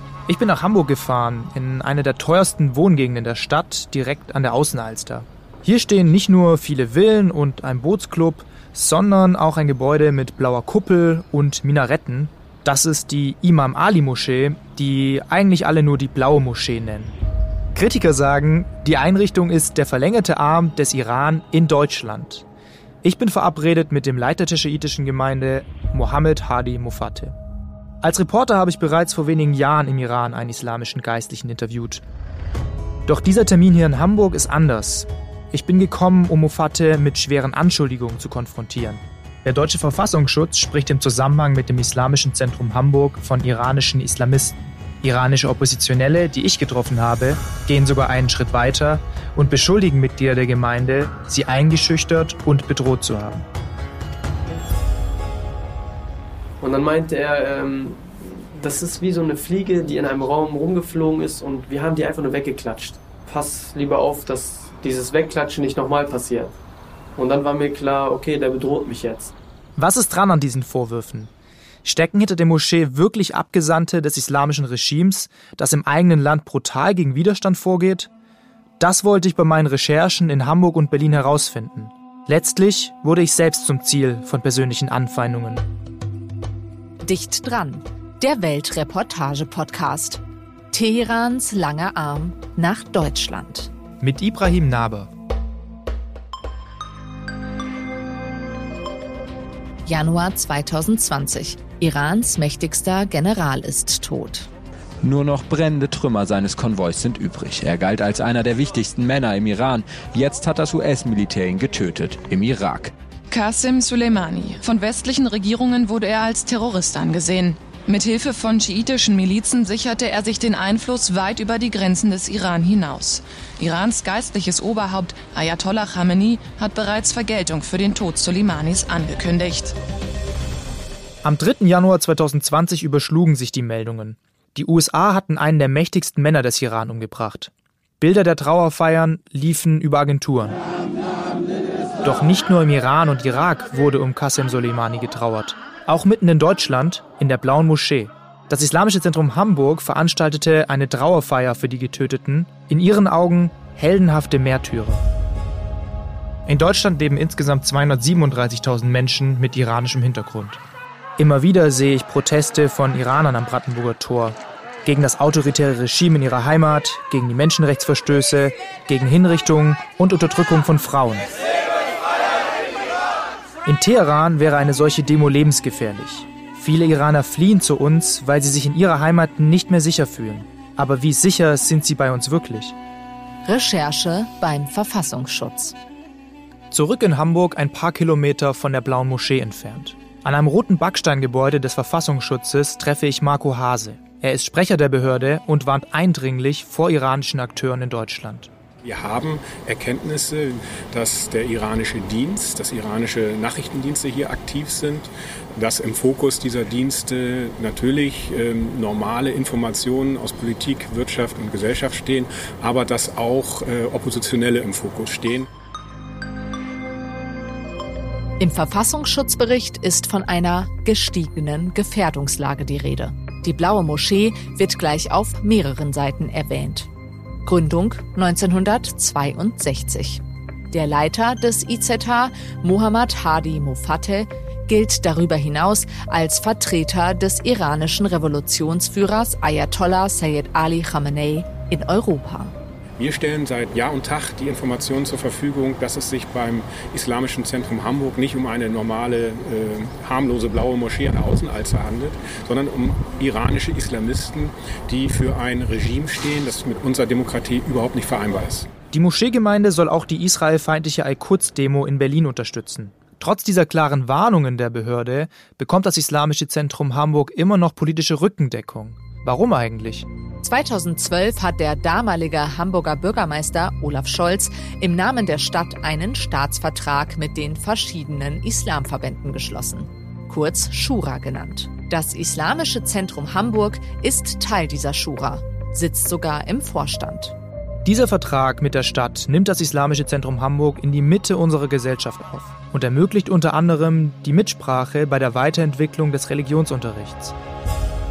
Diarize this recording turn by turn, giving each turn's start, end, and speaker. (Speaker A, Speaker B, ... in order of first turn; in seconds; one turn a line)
Speaker A: 0.3-17.1
Speaker A: 17.7-22.4
Speaker A: 23.0-27.3
Speaker A: 28.0-32.0
Speaker A: 33.1-53.5
Speaker B: 56.6-66.5
Speaker B: 67.2-69.3
Speaker A: 69.8-71.3
Speaker A: 71.8-78.1
Speaker A: 78.8-85.6
Speaker C: 87.0-93.7
Speaker A: 94.0-95.1
Speaker C: 99.8-104.5
Speaker D: 105.0-112.9
Speaker E: 113.3-129.7
Speaker A: 131.2-140.6
Speaker A: 142.0-155.0
Speaker A: 156.4-160.6
Speaker A: 161.2-171.3
Speaker A: 173.7-182.7
Speaker C: 183.4-185.8
Speaker A: 186.7-198.5
Speaker F: 198.8-215.5
Speaker C: 218.4-226.9
Speaker C: 227.4-242.5
Speaker F: 243.0-258.7
Speaker A: 258.9-270.1
Speaker C: 270.4-287.3
Speaker A: 287.8-297.3